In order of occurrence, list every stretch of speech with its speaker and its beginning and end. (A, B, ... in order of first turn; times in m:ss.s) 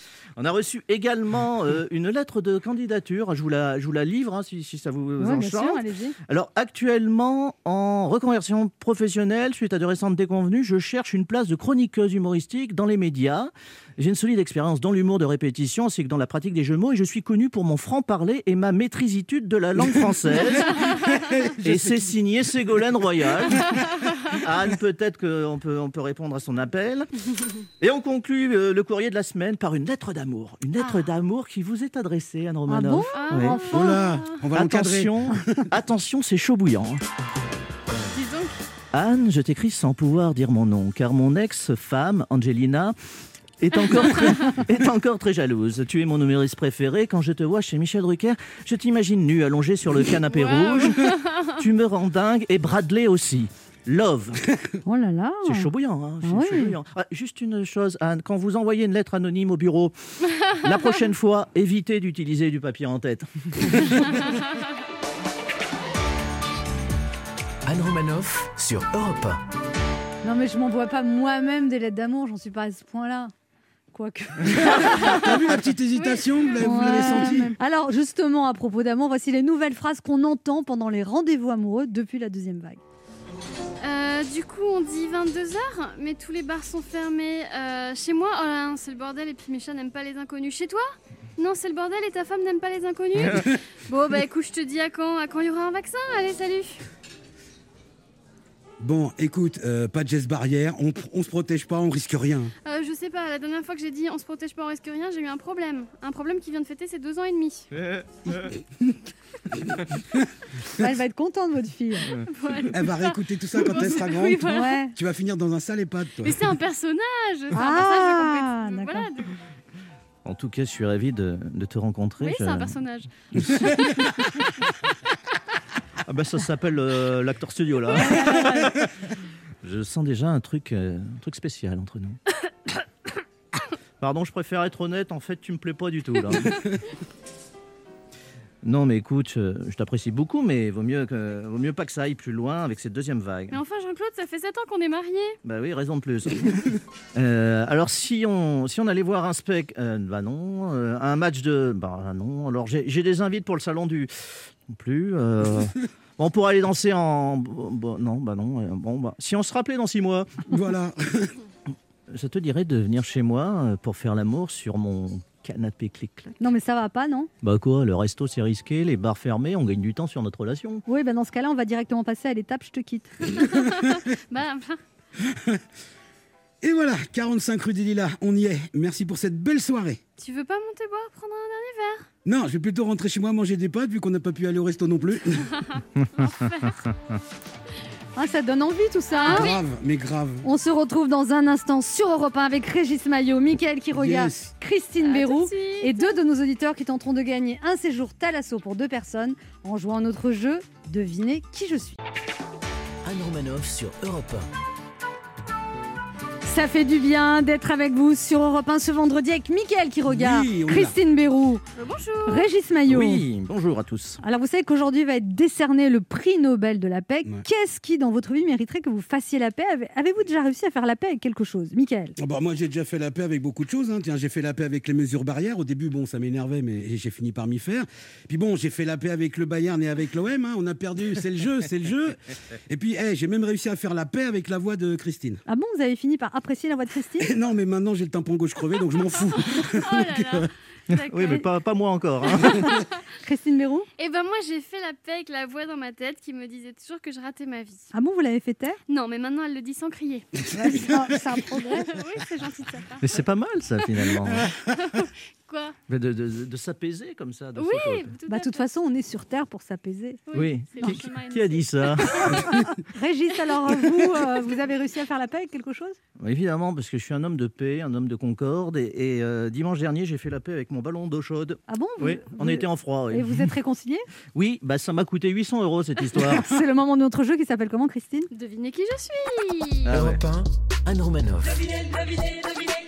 0:00.4-0:20.9 A
0:05.2-0:06.2 B
0:21.1-0:22.1 C
0:21.6-0:23.7 A
0:23.7-0:24.1 D
0:24.4-0:27.1 A
0:27.8-0:33.6 A
0:30.8-0:31.1 D
0:32.7-0:34.0 B
0:33.1-0:34.4 D
0:33.7-0:35.1 C
0:34.5-0:37.0 A
0:38.0-0:38.6 D
0:38.9-0:43.0 A
0:43.6-0:54.5 A
0:50.2-0:51.6 D
0:54.8-0:55.7 B
0:55.4-1:00.0 A
0:56.2-0:56.7 B
1:00.5-1:04.2 A
1:07.7-1:09.4 E
1:10.2-1:13.3 B
1:13.9-1:15.3 B
1:14.6-1:17.5 C
1:14.8-1:15.4 D
1:16.0-1:17.5 D
1:16.6-1:22.8 B
1:23.8-1:30.8 D
1:31.4-1:36.8 D
1:38.8-1:42.5 C
1:42.7-1:47.7 D
1:47.7-1:48.6 A
1:50.7-1:52.1 B
1:52.3-1:54.9 D
1:52.7-1:56.6 C
1:54.5-1:54.9 B
1:56.2-1:59.4 D
1:57.5-1:59.1 B
2:00.2-2:02.8 A
2:02.2-2:03.1 D
2:06.1-2:08.8 A
2:08.0-2:08.5 D
2:09.6-2:12.2 A
2:14.0-2:16.7 A
2:18.6-2:23.6 A
2:23.5-2:25.4 D
2:25.4-2:40.3 A
2:40.5-2:41.4 C
2:42.1-2:46.3 A
2:46.4-2:47.3 B
2:47.4-2:50.8 A
2:50.9-2:53.1 B
2:53.5-2:54.8 D
2:55.2-2:55.6 C
2:56.6-3:00.0 C
3:00.2-3:02.1 D
3:02.2-3:05.5 C
3:06.0-3:07.2 A
3:06.2-3:06.8 D
3:08.2-3:09.5 B
3:09.1-3:09.6 D
3:09.2-3:10.5 C
3:10.4-3:22.0 B
3:13.9-3:14.5 C
3:15.0-3:16.2 D
3:23.0-3:24.5 E
3:26.4-3:31.6 B
3:30.1-3:31.0 C
3:31.8-3:32.5 D
3:32.3-3:33.2 B
3:32.9-3:34.2 A
3:34.2-3:42.2 B
3:42.2-3:55.4 C
3:55.5-3:57.3 B
3:57.2-4:00.5 C
3:59.4-4:01.5 D
4:01.0-4:02.8 A
4:02.3-4:02.9 D
4:03.2-4:03.9 B
4:04.0-4:07.9 D
4:07.9-4:08.8 B
4:08.9-4:10.3 D
4:10.5-4:11.4 C
4:10.6-4:11.9 B
4:11.8-4:13.2 D
4:13.0-4:14.5 A
4:13.8-4:15.8 D
4:15.9-4:18.1 A
4:17.6-4:18.7 D
4:18.3-4:20.2 B
4:20.3-4:22.6 D
4:20.3-4:22.7 A
4:22.9-4:26.0 B
4:26.2-4:33.5 A
4:31.7-4:34.0 B
4:34.3-4:36.5 A
4:36.4-4:38.3 B
4:38.3-4:40.0 D
4:39.9-4:40.2 A
4:39.9-4:41.7 E